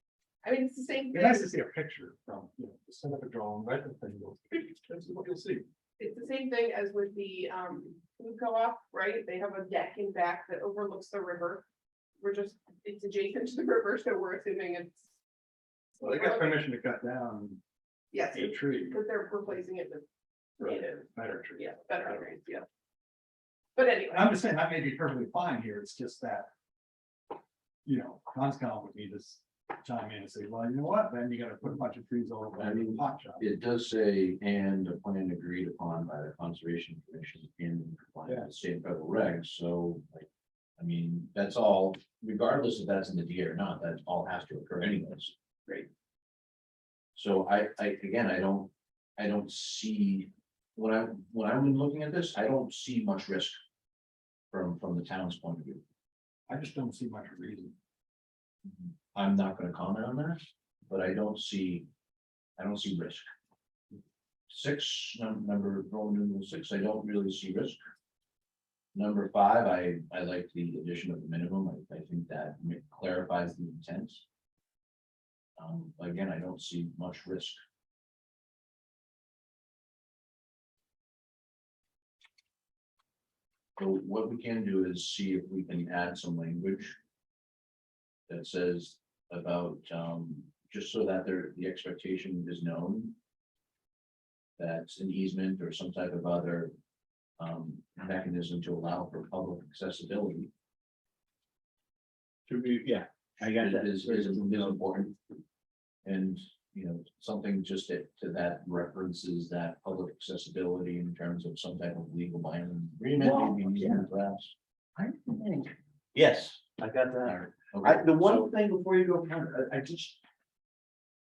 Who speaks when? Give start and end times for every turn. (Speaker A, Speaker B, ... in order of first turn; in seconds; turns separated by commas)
Speaker A: 0.4-1.5, Speaker B: 1.1-5.6, Speaker A: 6.0-11.6, Speaker A: 12.2-15.1, Speaker A: 16.0-16.6, Speaker B: 16.0-17.6, Speaker A: 18.1-20.0, Speaker B: 18.3-19.0, Speaker A: 20.6-21.0, Speaker B: 20.6-22.2, Speaker A: 21.6-22.6, Speaker A: 23.8-24.3, Speaker B: 24.1-26.5, Speaker B: 27.9-33.5, Speaker C: 32.6-45.3, Speaker C: 47.1-53.6, Speaker C: 54.5-55.8, Speaker B: 56.5-57.7, Speaker C: 58.7-61.9, Speaker C: 62.6-63.3, Speaker C: 64.5-67.8, Speaker C: 68.9-74.2, Speaker C: 75.6-77.6, Speaker C: 83.8-87.0, Speaker C: 88.3-93.2, Speaker C: 94.6-96.7, Speaker C: 97.4-100.5, Speaker D: 102.5-104.8, Speaker C: 103.5-105.2, Speaker C: 106.0-114.5, Speaker D: 113.2-114.0, Speaker D: 115.0-120.2, Speaker C: 117.2-118.5